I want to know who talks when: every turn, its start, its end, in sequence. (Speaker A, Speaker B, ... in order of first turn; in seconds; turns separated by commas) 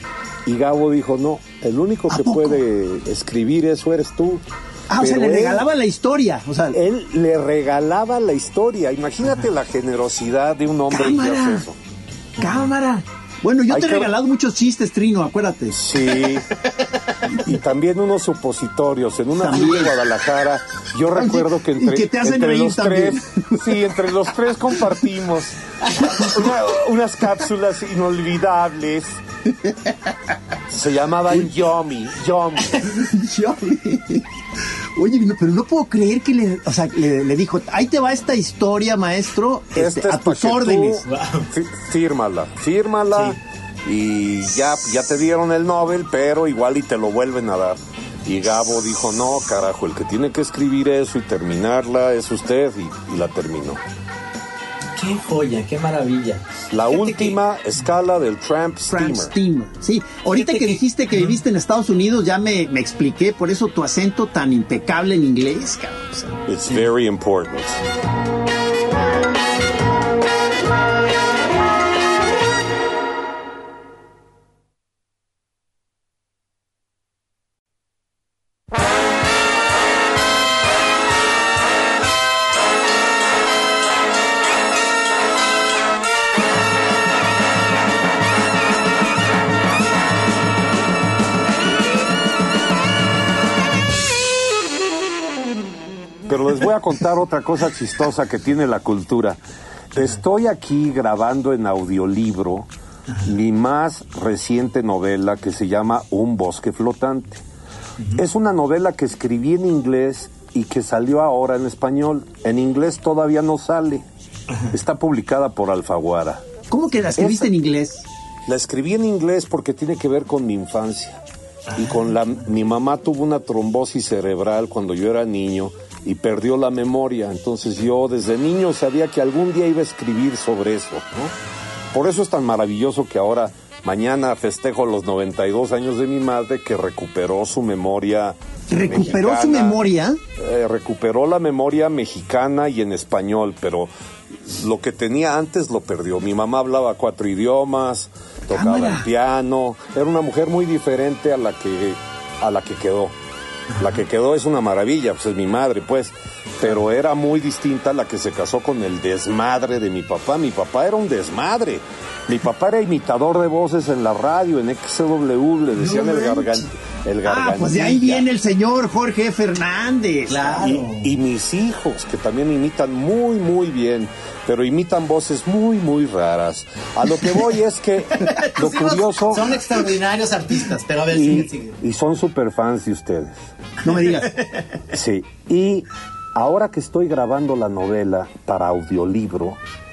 Speaker A: 0.5-4.4, Speaker B: 2.1-2.6, Speaker B: 4.9-6.8, Speaker A: 5.0-5.7, Speaker A: 6.7-11.8, Speaker B: 10.9-11.6, Speaker B: 12.4-15.8, Speaker A: 13.7-14.1, Speaker A: 15.7-16.5, Speaker A: 17.3-29.2, Speaker B: 19.4-19.9, Speaker B: 21.1-23.6, Speaker A: 30.7-32.9, Speaker B: 33.0-34.3, Speaker B: 35.0-41.0, Speaker A: 39.7-53.8, Speaker C: 41.0-41.5, Speaker C: 55.0-57.4, Speaker A: 56.7-59.3, Speaker B: 58.9-66.4, Speaker C: 60.3-61.4, Speaker A: 66.5-67.8, Speaker A: 96.3-99.4, Speaker A: 99.9-102.7, Speaker A: 103.2-107.4, Speaker A: 108.2-114.0, Speaker C: 114.5-114.7, Speaker A: 114.7-116.4, Speaker B: 116.7-118.0, Speaker A: 117.2-117.5, Speaker A: 118.5-121.2, Speaker C: 121.7-121.9, Speaker A: 121.8-131.3, Speaker A: 131.9-139.8, Speaker B: 138.7-140.2, Speaker A: 140.3-153.1, Speaker B: 148.5-149.1, Speaker A: 153.8-168.3, Speaker B: 165.8-166.7, Speaker B: 167.2-170.8, Speaker C: 170.3-171.1, Speaker A: 170.6-179.6, Speaker C: 178.2-181.8, Speaker A: 181.1-183.4, Speaker B: 183.8-184.3, Speaker C: 184.1-184.6, Speaker A: 184.9-189.6